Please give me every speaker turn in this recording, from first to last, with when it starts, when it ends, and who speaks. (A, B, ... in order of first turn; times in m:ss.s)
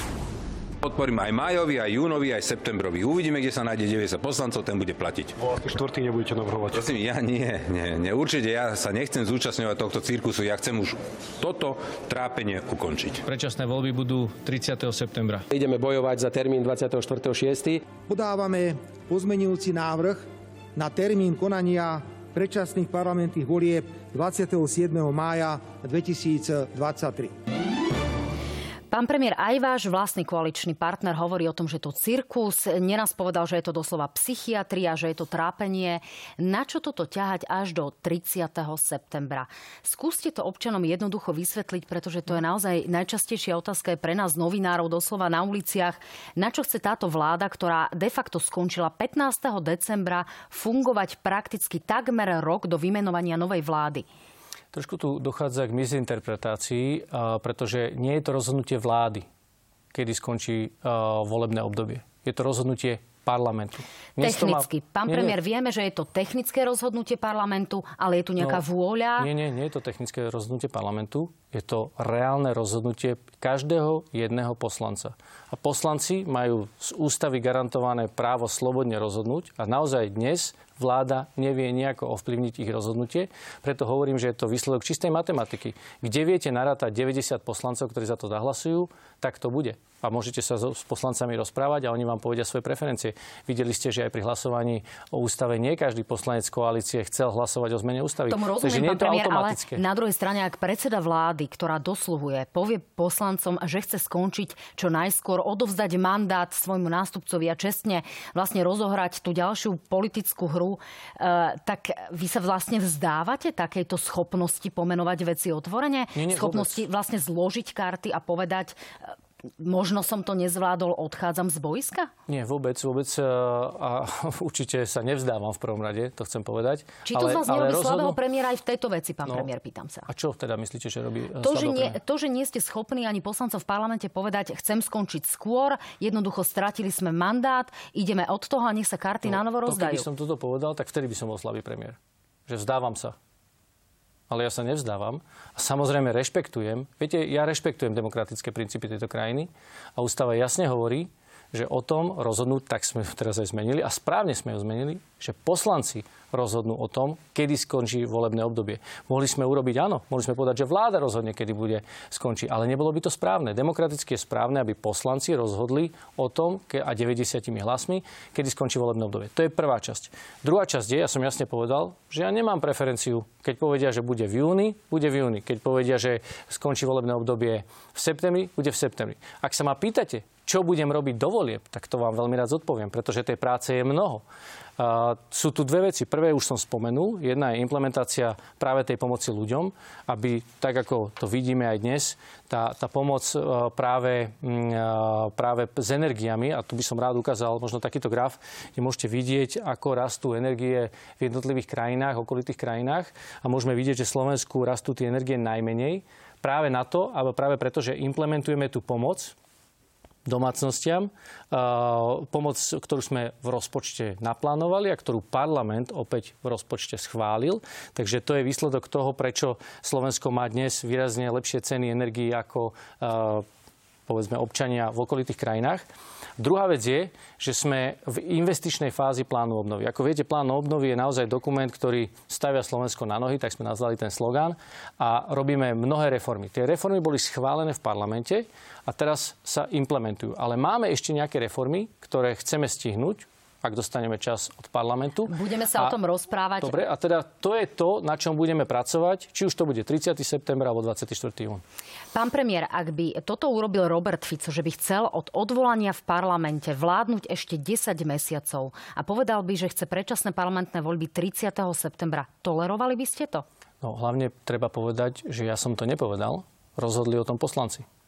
0:00.8-0:05.5 A
0:05.6-0:06.8 B
0:06.7-0:13.2 A
0:13.2-0:15.5 C
0:15.5-0:17.9 B
0:18.1-0:27.4 D
0:28.9-0:54.0 E
0:54.7-0:59.3 C
0:59.9-1:05.4 C
1:04.2-1:09.3 E
1:09.2-1:39.8 C
1:38.3-1:58.8 E
1:56.2-1:56.8 C
1:59.6-2:02.1 E
2:02.3-2:08.2 C
2:07.1-2:10.1 E
2:10.1-2:12.0 C
2:11.4-2:20.1 E
2:19.2-2:23.2 C
2:24.3-3:04.2 C
3:04.8-3:29.4 C
3:30.3-3:43.5 C
3:44.1-3:45.9 C
3:46.4-4:06.0 C
4:05.3-4:06.8 E
4:06.6-4:11.6 C
4:12.1-4:23.4 E
4:23.8-4:27.9 C